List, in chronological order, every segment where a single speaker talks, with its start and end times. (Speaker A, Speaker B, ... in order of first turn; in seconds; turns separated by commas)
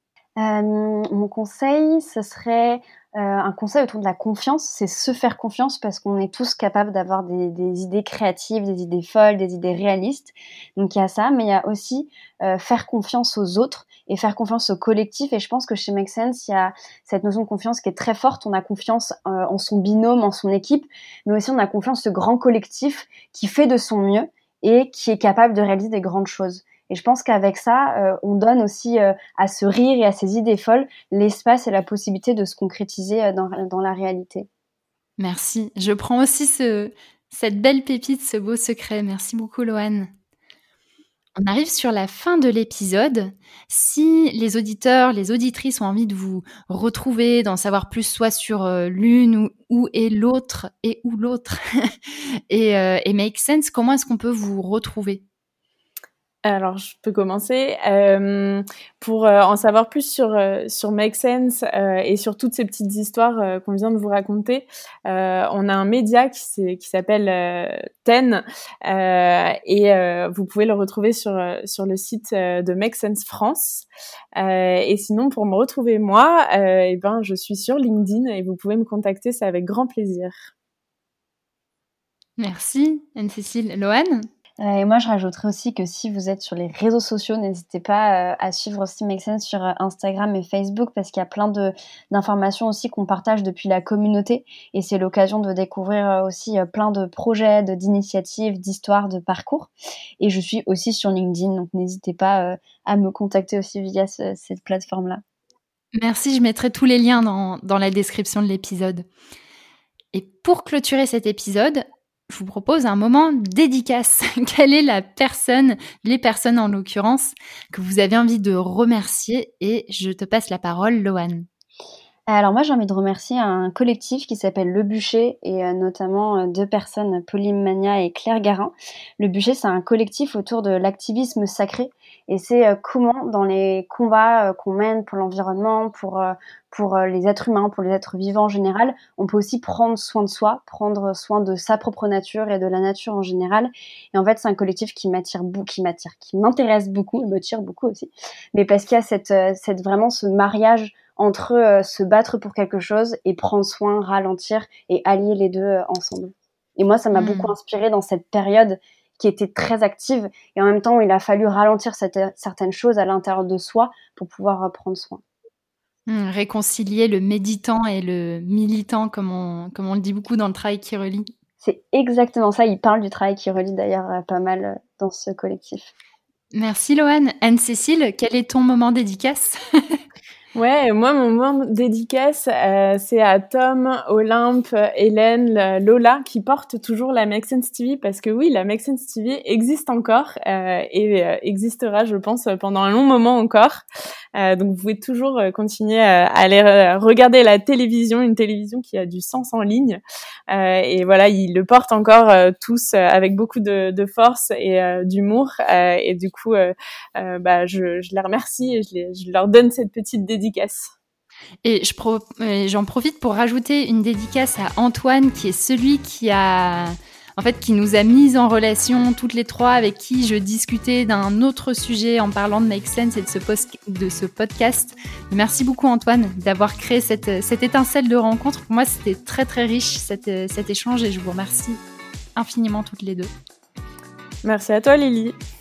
Speaker A: 0.4-34.5, Speaker B: 35.2-40.1, Speaker B: 41.4-55.2, Speaker C: 56.4-80.5, Speaker B: 82.4-84.3, Speaker A: 84.6-105.2, Speaker B: 106.0-109.1, Speaker B: 110.1-121.5, Speaker A: 122.3-165.2, Speaker B: 157.1-157.5, Speaker B: 166.1-171.3, Speaker A: 171.6-175.9, Speaker B: 176.5-180.0, Speaker C: 180.5-193.8, Speaker C: 194.3-210.9, Speaker B: 211.6-231.8, Speaker B: 232.3-233.3, Speaker C: 234.4-235.3